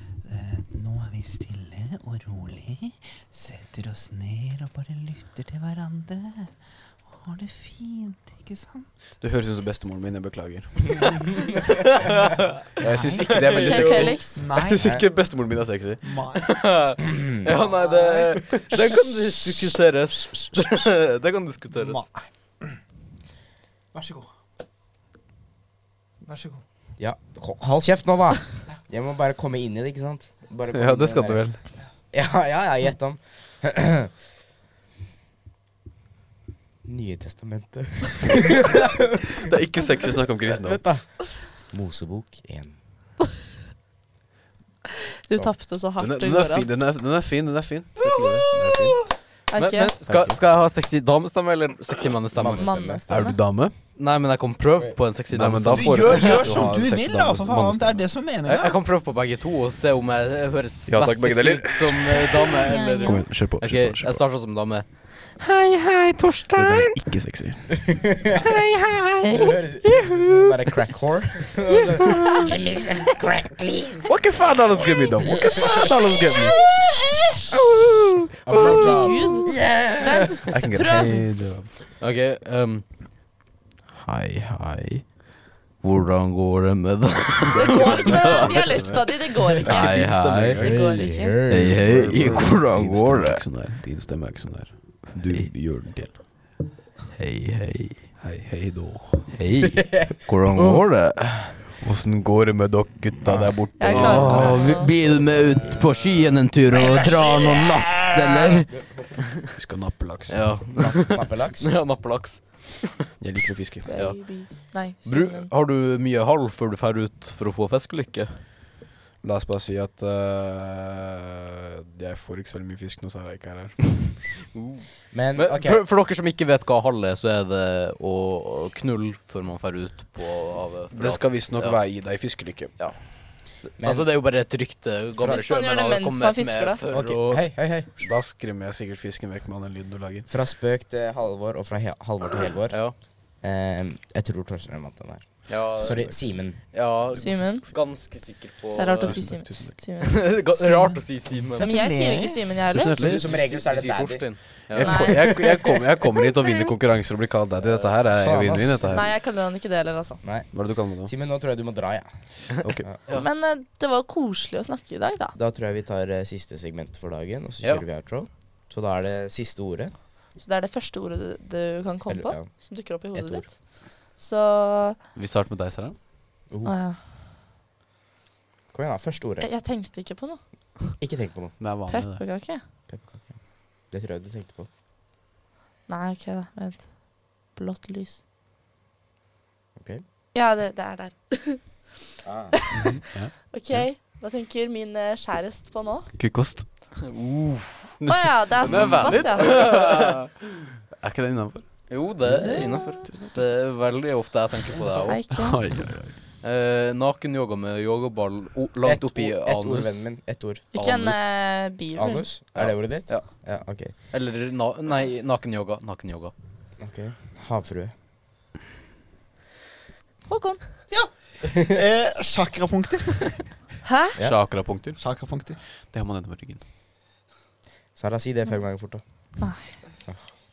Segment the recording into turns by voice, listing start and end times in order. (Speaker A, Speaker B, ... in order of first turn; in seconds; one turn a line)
Speaker A: 0.2-6.5
Speaker A: 7.1-8.9
Speaker B: 9.2-11.4
Speaker C: 11.8-12.6
Speaker B: 12.8-16.0
Speaker A: 12.8-14.9
Speaker C: 13.3-14.1
Speaker D: 13.4-14.5
Speaker E: 14.8-15.0
Speaker A: 16.0-16.7
Speaker C: 16.3-22.0
Speaker E: 17.0-17.5
Speaker A: 17.6-18.9
Speaker A: 21.7-22.8
Speaker A: 23.9-24.3
Speaker A: 26.2-26.6
Speaker E: 27.0-31.5
Speaker B: 30.7-31.6
Speaker E: 32.1-34.1
Speaker E: 36.9-38.9
Speaker B: 39.4-41.0
Speaker E: 40.5-42.8
Speaker D: 45.2-46.7
Speaker B: 46.0-49.0
Speaker A: 48.0-49.1
Speaker D: 49.5-49.9
Speaker C: 49.5-52.7
Speaker E: 50.0-50.4
Speaker E: 52.3-53.0
Speaker D: 52.6-53.4
Speaker B: 53.1-53.7
Speaker C: 54.0-56.6
Speaker B: 55.3-58.0
Speaker A: 55.7-58.8
Speaker C: 58.4-67.0
Speaker B: 60.9-64.2
Speaker D: 62.8-63.1
Speaker B: 66.5-67.9
Speaker E: 67.8-68.6
Speaker C: 68.4-70.5
Speaker E: 69.3-74.1
Speaker B: 74.1-76.7
Speaker C: 77.7-79.2
Speaker E: 78.4-80.5
Speaker D: 78.5-81.3
Speaker B: 80.5-81.7
Speaker C: 82.0-82.9
Speaker C: 84.0-85.0
Speaker C: 85.8-88.7
Speaker D: 87.5-90.0
Speaker B: 87.6-90.9
Speaker C: 89.7-90.6
Speaker D: 90.6-91.4
Speaker E: 90.6-92.3
Speaker C: 91.5-93.4
Speaker B: 91.5-96.2
Speaker C: 95.3-95.6
Speaker C: 97.2-98.1
Speaker B: 98.2-99.4
Speaker C: 99.3-101.7
Speaker E: 99.7-100.8
Speaker B: 101.8-104.6
Speaker D: 103.8-104.9
Speaker C: 103.9-108.9
Speaker E: 106.7-109.2
Speaker B: 109.5-110.6
Speaker C: 110.3-112.9
Speaker E: 110.7-111.7
Speaker B: 113.2-114.0
Speaker D: 113.8-115.5
Speaker C: 113.9-118.4
Speaker B: 119.2-124.1
Speaker C: 124.5-124.8
Speaker E: 125.1-125.8
Speaker C: 125.3-132.2
Speaker B: 130.9-132.9
Speaker C: 132.8-137.4
Speaker E: 133.8-134.2
Speaker E: 135.2-135.5
Speaker D: 135.3-136.8
Speaker E: 136.9-137.9
Speaker B: 138.0-140.3
Speaker E: 140.3-146.9
Speaker C: 142.7-142.9
Speaker C: 145.5-146.2
Speaker B: 145.5-146.7
Speaker C: 146.7-149.2
Speaker D: 147.1-147.7
Speaker B: 147.7-148.4
Speaker D: 148.7-150.3
Speaker B: 149.0-149.8
Speaker C: 150.0-151.7
Speaker A: 150.5-152.6
Speaker D: 151.6-153.0
Speaker B: 152.7-153.4
Speaker C: 152.9-155.1
Speaker E: 153.0-154.5
Speaker B: 154.7-159.1
Speaker D: 154.8-155.4
Speaker E: 155.2-155.6
Speaker D: 156.3-156.7
Speaker C: 157.6-157.9
Speaker E: 158.1-159.0
Speaker D: 158.8-160.2
Speaker E: 160.2-163.0
Speaker B: 160.4-161.1
Speaker B: 162.7-162.9
Speaker D: 163.1-165.3
Speaker E: 165.3-169.9
Speaker D: 170.3-175.0
Speaker E: 172.1-173.5
Speaker B: 175.1-176.0
Speaker D: 176.6-177.0
Speaker E: 178.7-179.5
Speaker D: 179.4-180.9
Speaker E: 181.0-181.6
Speaker B: 181.6-182.3
Speaker D: 181.9-182.6
Speaker E: 182.9-184.7
Speaker D: 185.9-188.2
Speaker E: 189.8-190.0
Speaker D: 190.3-196.1
Speaker E: 192.2-192.5
Speaker B: 192.7-193.9
Speaker B: 196.1-196.7
Speaker C: 197.0-197.8
Speaker B: 198.0-200.3
Speaker D: 198.1-199.6
Speaker C: 198.6-200.2
Speaker B: 200.9-202.2
Speaker C: 201.9-205.2
Speaker D: 202.4-203.1
Speaker B: 203.0-203.3
Speaker D: 204.9-205.6
Speaker B: 205.3-206.2
Speaker C: 206.4-210.0
Speaker E: 208.8-210.7
Speaker D: 210.7-212.3
Speaker C: 210.8-211.3
Speaker E: 211.9-213.9
Speaker C: 212.5-213.3
Speaker C: 214.1-216.3
Speaker E: 216.8-217.9
Speaker D: 220.3-220.6
Speaker A: 220.9-223.4
Speaker D: 223.8-224.2
Speaker B: 224.2-225.0
Speaker A: 225.0-225.6
Speaker B: 225.8-226.6
Speaker E: 227.9-229.0
Speaker D: 229.4-229.7